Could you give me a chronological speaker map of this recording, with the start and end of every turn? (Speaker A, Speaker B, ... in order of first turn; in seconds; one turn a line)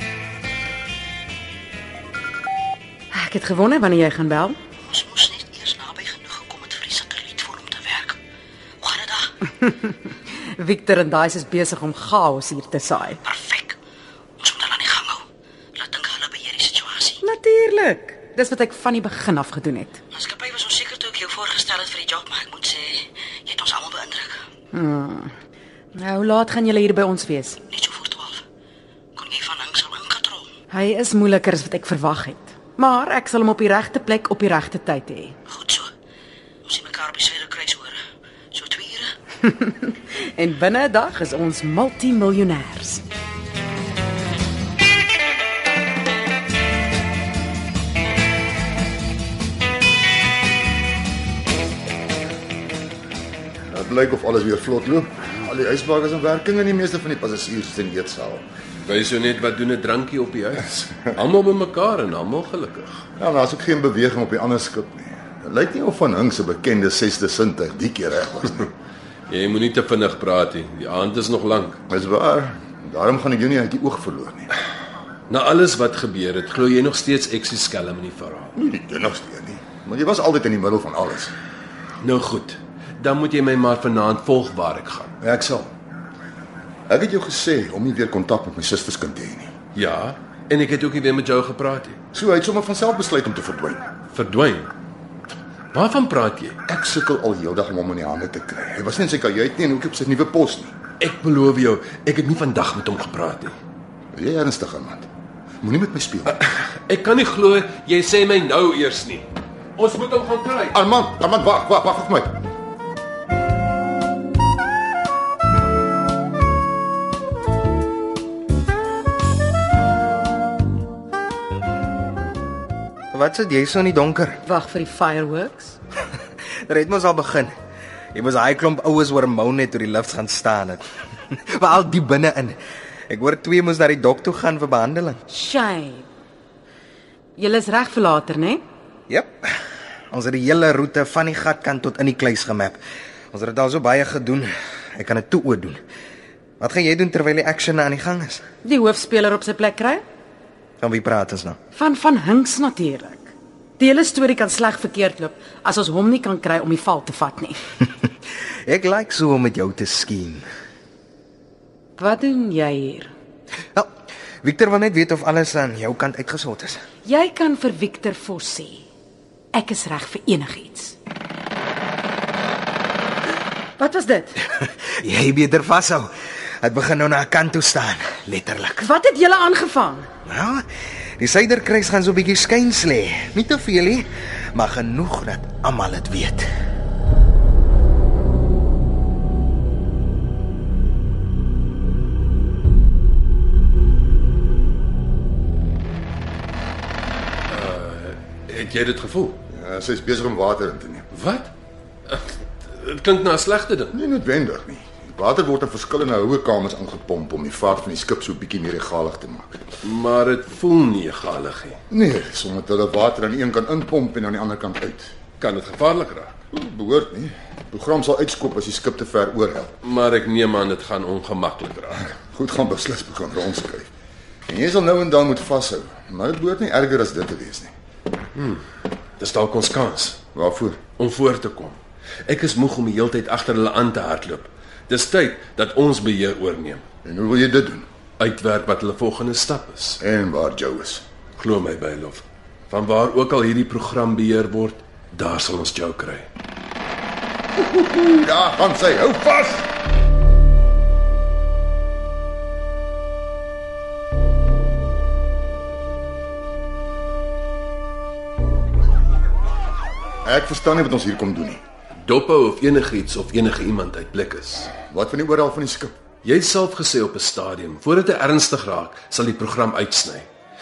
Speaker A: 3.1-4.5
Speaker B: 4.9-8.2
Speaker B: 8.8-9.3
Speaker A: 9.6-13.2
Speaker B: 13.2-13.7
Speaker B: 14.4-15.2
Speaker B: 15.8-17.2
Speaker A: 17.2-20.0
Speaker B: 20.1-24.4
Speaker A: 24.7-25.3
Speaker A: 25.9-27.6
Speaker B: 27.7-28.4
Speaker B: 29.1-30.5
Speaker A: 30.7-35.3
Speaker B: 35.5-35.9
Speaker B: 36.6-38.0
Speaker B: 38.5-39.1
Speaker A: 39.4-43.0
Speaker C: 53.7-58.5
Speaker D: 58.8-63.0
Speaker C: 63.2-68.7
Speaker D: 69.3-71.8
Speaker C: 71.9-74.5
Speaker D: 75.3-78.5
Speaker C: 78.6-81.3
Speaker D: 82.0-85.1
Speaker C: 85.2-85.7
Speaker C: 86.9-89.5
Speaker D: 89.7-92.0
Speaker C: 92.1-93.8
Speaker D: 94.1-94.7
Speaker D: 95.7-96.6
Speaker C: 96.7-100.7
Speaker D: 101.0-103.5
Speaker C: 104.1-105.1
Speaker C: 105.6-106.3
Speaker D: 106.3-110.8
Speaker C: 110.7-112.4
Speaker E: 123.1-124.4
Speaker A: 124.4-125.8
Speaker E: 126.7-127.5
Speaker E: 128.1-130.9
Speaker E: 131.5-132.6
Speaker E: 133.1-135.2
Speaker A: 135.3-136.1
Speaker A: 137.4-138.6
Speaker E: 139.1-139.5
Speaker E: 140.1-142.8
Speaker E: 143.3-145.8
Speaker E: 146.6-148.4
Speaker A: 148.6-150.0
Speaker E: 150.8-151.6
Speaker A: 151.7-157.6
Speaker E: 158.7-160.4
Speaker A: 162.0-163.1
Speaker E: 164.4-166.8
Speaker A: 167.0-168.8
Speaker A: 169.5-170.9
Speaker A: 173.8-174.4
Speaker E: 174.6-176.1
Speaker E: 176.6-178.8
Speaker A: 178.8-180.1
Speaker E: 180.2-180.6
Speaker E: 181.2-186.4
Speaker D: 197.5-199.4
Speaker C: 199.5-201.1
Speaker D: 201.1-201.5
Speaker D: 202.1-203.9
Speaker C: 203.9-209.6
Speaker D: 209.8-211.8
Speaker C: 211.9-215.1
Speaker D: 215.4-216.3
Speaker C: 216.5-219.7
Speaker D: 219.8-222.2
Speaker C: 222.3-223.9
Speaker C: 224.5-227.7
Speaker D: 228.3-228.6
Speaker D: 229.2-230.2
Speaker C: 230.3-230.8
Speaker D: 231.0-236.8
Speaker C: 237.0-237.8
Speaker D: 238.2-240.0
Speaker C: 240.0-241.0
Speaker D: 241.4-246.3
Speaker C: 247.6-249.7
Speaker C: 260.2-261.6
Speaker D: 262.0-264.7
Speaker C: 264.9-265.9
Speaker D: 266.2-270.3